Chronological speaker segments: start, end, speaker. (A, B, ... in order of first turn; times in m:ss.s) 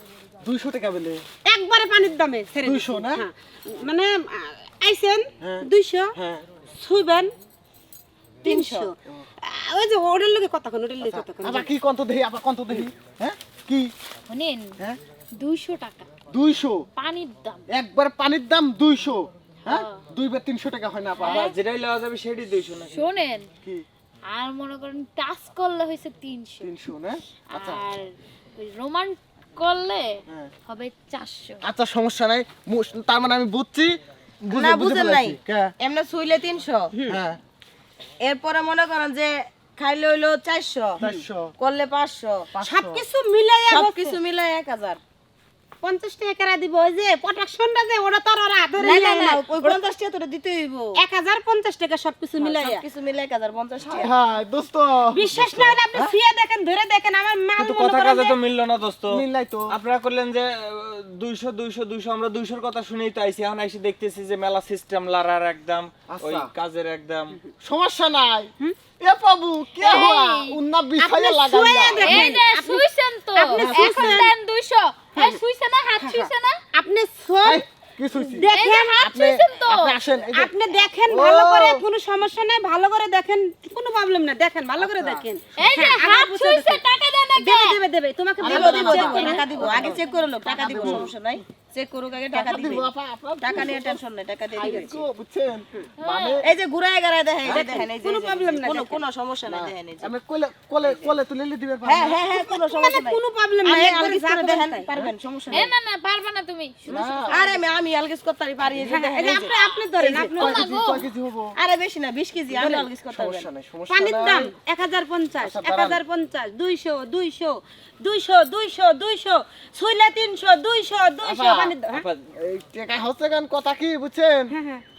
0:00.4-0:01.2 A
0:01.5-0:06.2 B
0:02.6-0:03.2 A
0:05.4-0:06.4 A
0:06.7-0:07.3 B
0:08.4-0:08.9 C
0:08.4-0:11.7 B
0:11.0-0:13.9 A
0:14.3-0:14.8 D
0:15.3-0:16.1 D
0:16.3-0:16.9 A
0:17.0-0:17.6 D
0:17.7-0:21.5 A
0:19.7-0:20.0 D
0:21.2-0:21.6 D
0:21.3-0:23.0 E
0:22.9-0:23.5 D
0:24.3-0:26.7 D
0:26.6-0:27.8 A
0:27.5-0:31.6 D
0:31.6-0:35.7 A
0:34.5-0:36.9 C
0:36.9-0:37.2 B
0:37.1-0:37.4 A
0:38.2-0:41.0 C
0:41.0-0:41.5 A
0:41.6-0:42.5 C
0:42.5-0:43.0 A
0:42.6-0:44.2 B
0:43.7-0:45.0 C
0:45.8-0:49.8 B
0:48.8-0:51.0 C
0:51.0-0:52.8 B
0:52.4-0:54.1 C
0:54.0-0:56.2 A
0:55.1-0:58.4 B
0:57.6-1:07.4 E
0:59.1-0:59.8 A
1:06.1-1:06.5 A
1:07.6-1:12.2 A
1:09.8-1:10.6 D
1:11.0-1:12.8 B
1:12.0-1:16.6 D
1:13.4-1:14.3 B
1:13.5-1:14.3 A
1:16.0-1:17.6 B
1:17.4-1:20.5 A
1:18.4-1:19.0 B
1:18.4-1:20.0 D
1:20.3-1:26.8 B
1:21.1-1:21.8 A
1:24.8-1:25.2 A
1:25.6-1:27.8 D
1:27.4-1:29.8 B
1:28.4-1:31.1 A
1:28.4-1:32.9 C
1:28.5-1:30.0 D
1:30.5-1:31.1 B
1:32.3-1:34.0 A
1:33.4-1:35.0 C
1:34.6-1:36.5 A
1:34.6-1:34.9 B
1:36.0-1:36.4 D
1:36.4-1:40.1 C
1:37.5-1:39.0 B
1:39.5-1:42.2 A
1:40.8-1:41.2 C
1:41.9-1:45.7 C
1:42.3-1:44.9 B
1:45.5-1:47.6 D
1:46.9-1:47.5 A
1:47.0-1:50.3 C
1:48.8-1:50.7 B
1:50.3-1:51.0 D
1:50.4-1:51.6 A
1:51.6-1:53.5 C
1:52.6-1:52.9 B
1:52.7-1:54.5 A
1:53.9-2:02.1 B
1:55.4-1:56.0 A
2:01.2-2:01.8 A
2:01.9-2:02.3 E
2:02.4-2:04.5 A
2:04.5-2:04.8 B